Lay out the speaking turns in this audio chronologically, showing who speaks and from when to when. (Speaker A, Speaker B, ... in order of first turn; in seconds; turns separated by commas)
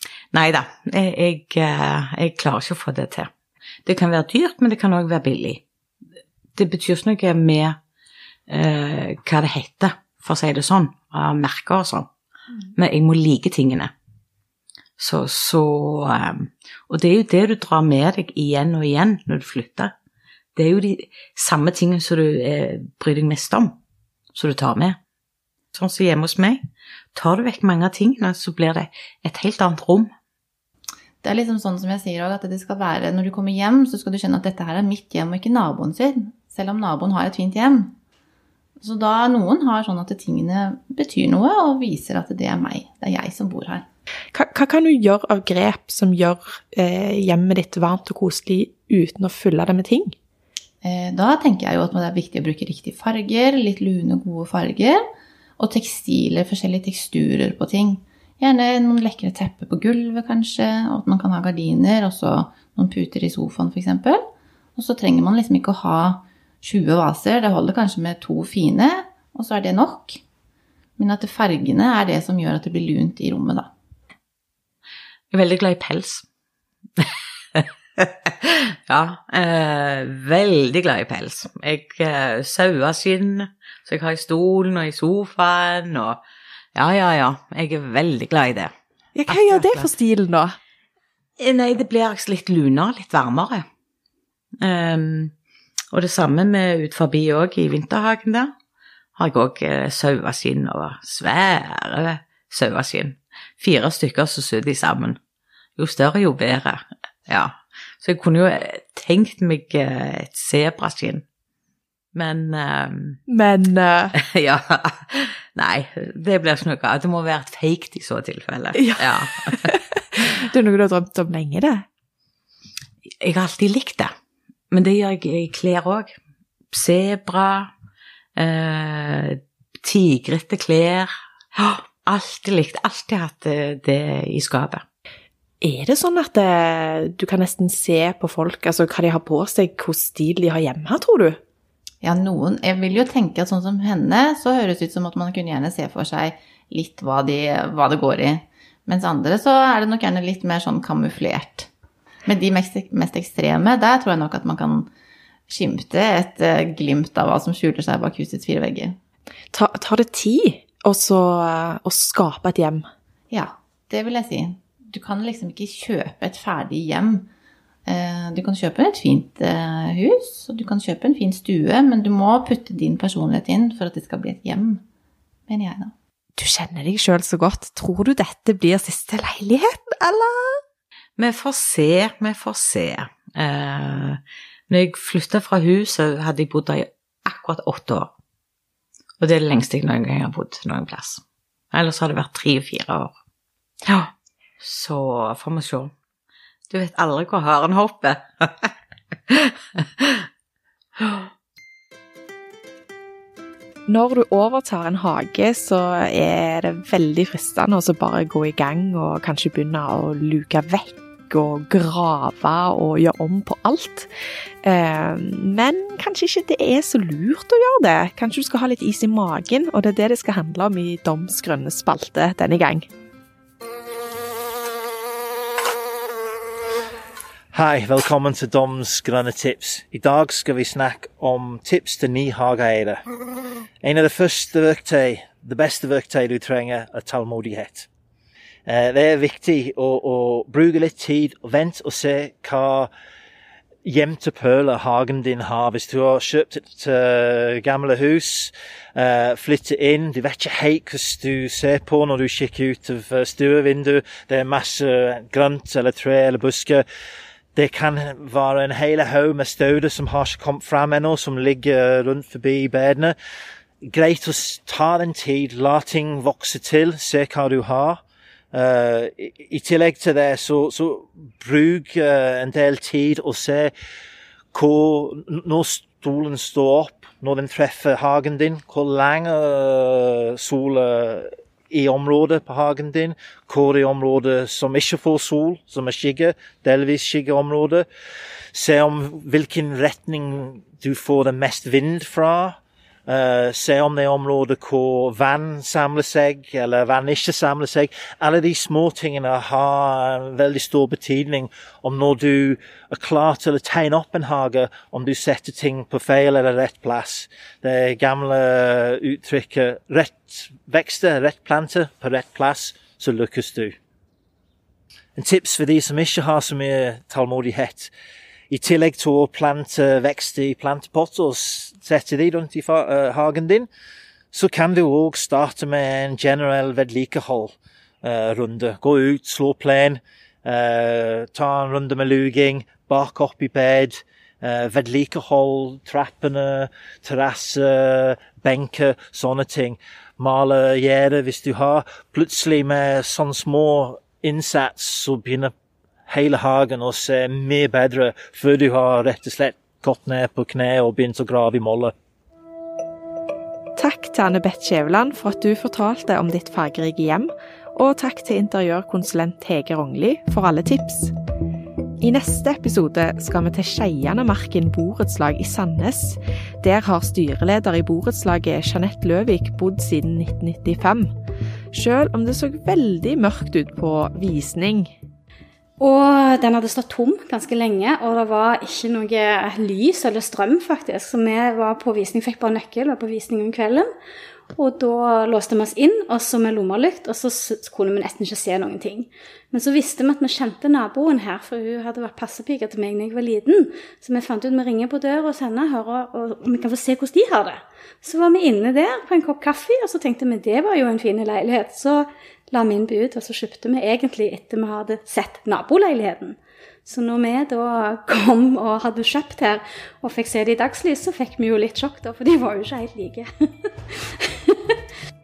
Speaker A: 0.3-3.3, Speaker A: 3.9-5.6, Speaker A: 6.5-7.8, Speaker A: 8.5-12.1, Speaker A: 12.7-13.9, Speaker A: 15.0-19.9, Speaker A: 20.6-23.8, Speaker A: 24.3-25.0, Speaker A: 25.7-26.6, Speaker A: 27.1-30.1, Speaker B: 31.2-37.9, Speaker B: 38.8-43.9, Speaker C: 44.3-50.1, Speaker B: 50.8-55.0, Speaker B: 55.6-64.2, Speaker B: 64.8-70.2, Speaker B: 71.0-73.7, Speaker A: 75.3-76.2, Speaker A: 77.5-86.2, Speaker A: 86.7-88.7, Speaker C: 89.2-90.5, Speaker A: 89.3-89.9, Speaker A: 91.4-93.6, Speaker A: 94.6-95.3, Speaker A: 95.9-98.5, Speaker A: 99.2-105.2, Speaker A: 105.8-111.2, Speaker A: 112.1-113.2, Speaker C: 113.3-114.1, Speaker A: 114.2-119.7, Speaker C: 118.8-119.8, Speaker C: 120.5-121.8, Speaker A: 123.2-124.1, Speaker A: 124.7-126.1, Speaker A: 126.7-127.7, Speaker A: 128.3-134.8, Speaker C: 135.6-141.4, Speaker B: 142.0-151.7, Speaker B: 152.2-154.9, Speaker B: 155.5-159.0, Speaker C: 159.5-162.8, Speaker B: 163.3-167.3, Speaker B: 167.9-174.8, Speaker B: 175.5-175.9, Speaker C: 176.4-180.6, Speaker A: 181.2-188.1, Speaker A: 189.2-193.2, Speaker A: 193.9-195.9, Speaker A: 196.7-198.7, Speaker A: 199.3-200.2, Speaker C: 203.9-214.1, Speaker C: 214.6-222.9, Speaker D: 227.5-233.0, Speaker D: 233.8-237.9, Speaker D: 238.7-242.9, Speaker D: 243.8-256.8, Speaker D: 257.5-263.1, Speaker D: 263.8-268.0, Speaker D: 268.5-273.7, Speaker D: 274.5-287.9, Speaker D: 288.5-292.6, Speaker D: 293.1-313.8, Speaker D: 315.1-317.9, Speaker D: 318.5-323.7, Speaker D: 324.3-345.5, Speaker D: 346.1-351.9, Speaker C: 353.8-361.1, Speaker C: 362.0-371.1, Speaker C: 371.7-374.9, Speaker E: 375.8-383.9, Speaker E: 384.5-413.3, Speaker E: 413.9-414.8